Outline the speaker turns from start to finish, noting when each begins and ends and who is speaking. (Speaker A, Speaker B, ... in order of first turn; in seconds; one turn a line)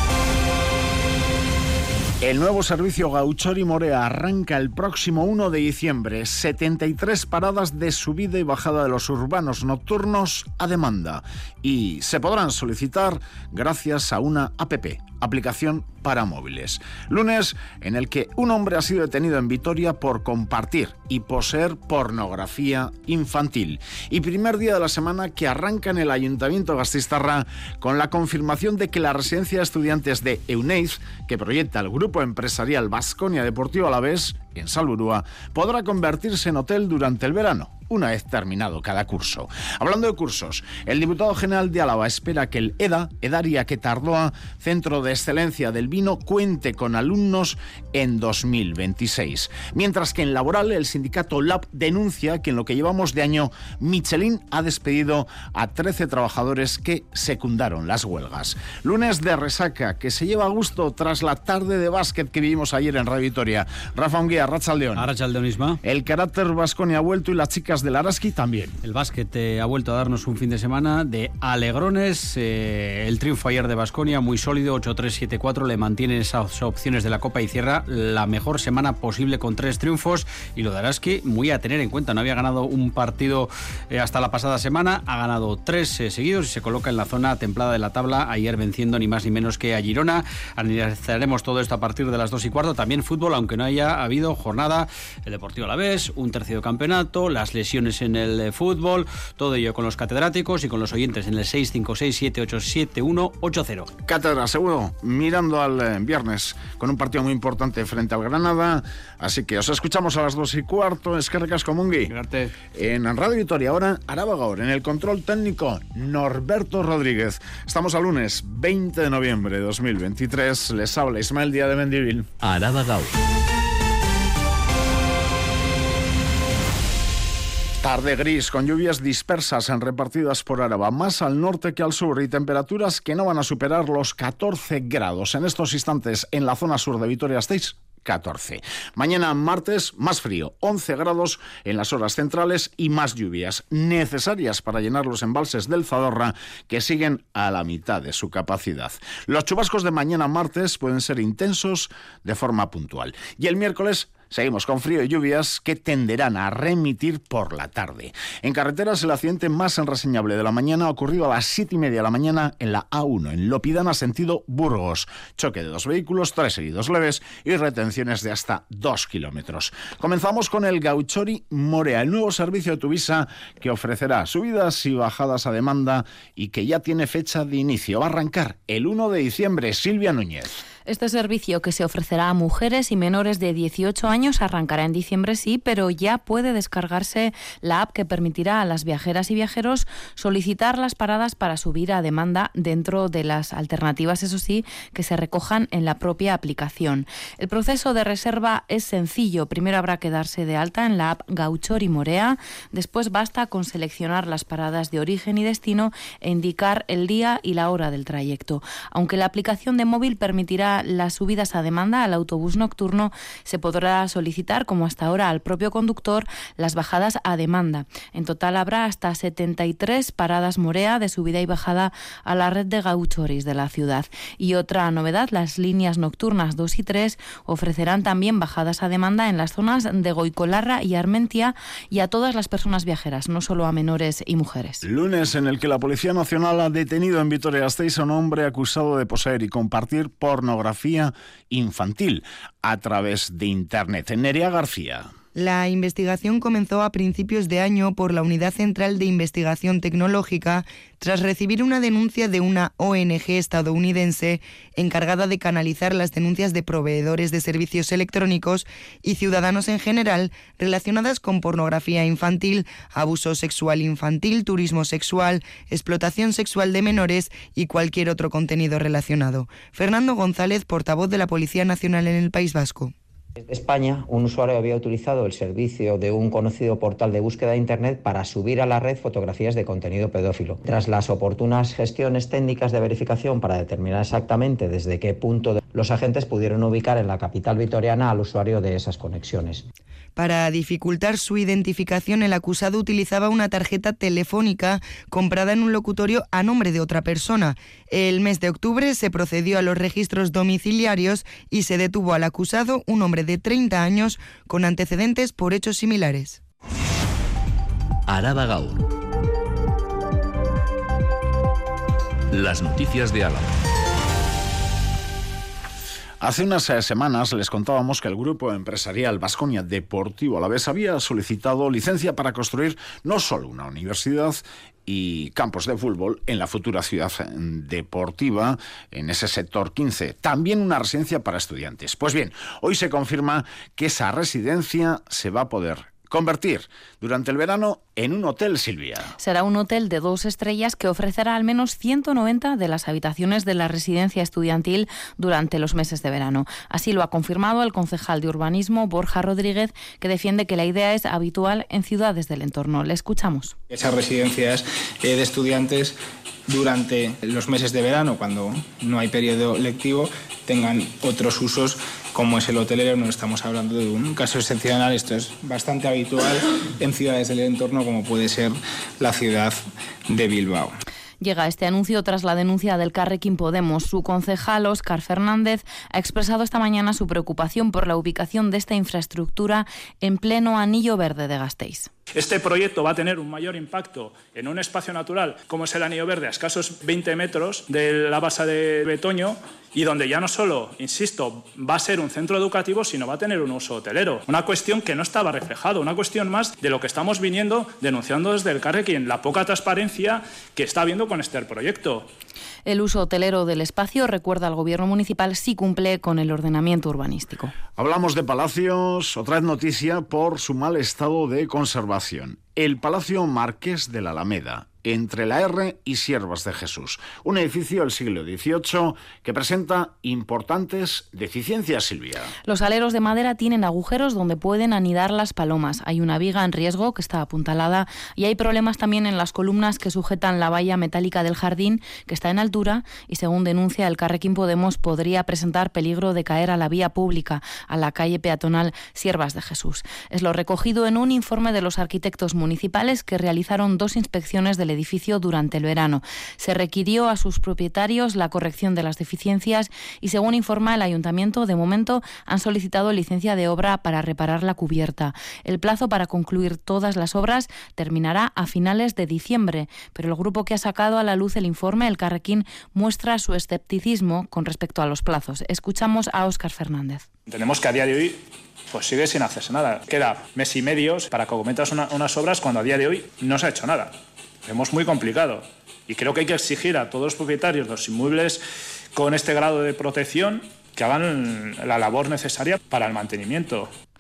Speaker A: 2.2-65.1
Speaker B: 65.0-65.8
Speaker A: 65.8-68.8
Speaker B: 68.8-103.9
Speaker A: 104.0-112.2
Speaker B: 112.1-112.5
Speaker A: 112.7-122.3
Speaker C: 122.4-123.2
Speaker A: 127.8-180.6
Speaker D: 180.9-234.8
Speaker A: 234.8-245.1
Speaker E: 245.3-272.9
Speaker F: 273.4-289.6
Speaker E: 290.2-306.4
Speaker C: 308.1-308.9
Speaker C: 312.3-313.6
Speaker A: 316.2-339.1
Speaker D: 339.2-353.6
Speaker G: 353.7-356.0
Speaker G: 356.5-370.7
Speaker D: 371.2-381.9
Speaker H: 382.1-402.1
Speaker D: 402.7-407.5
Speaker A: 407.8-422.3
Speaker D: 422.5-467.1
Speaker H: 467.3-478.4
Speaker H: 478.9-483.7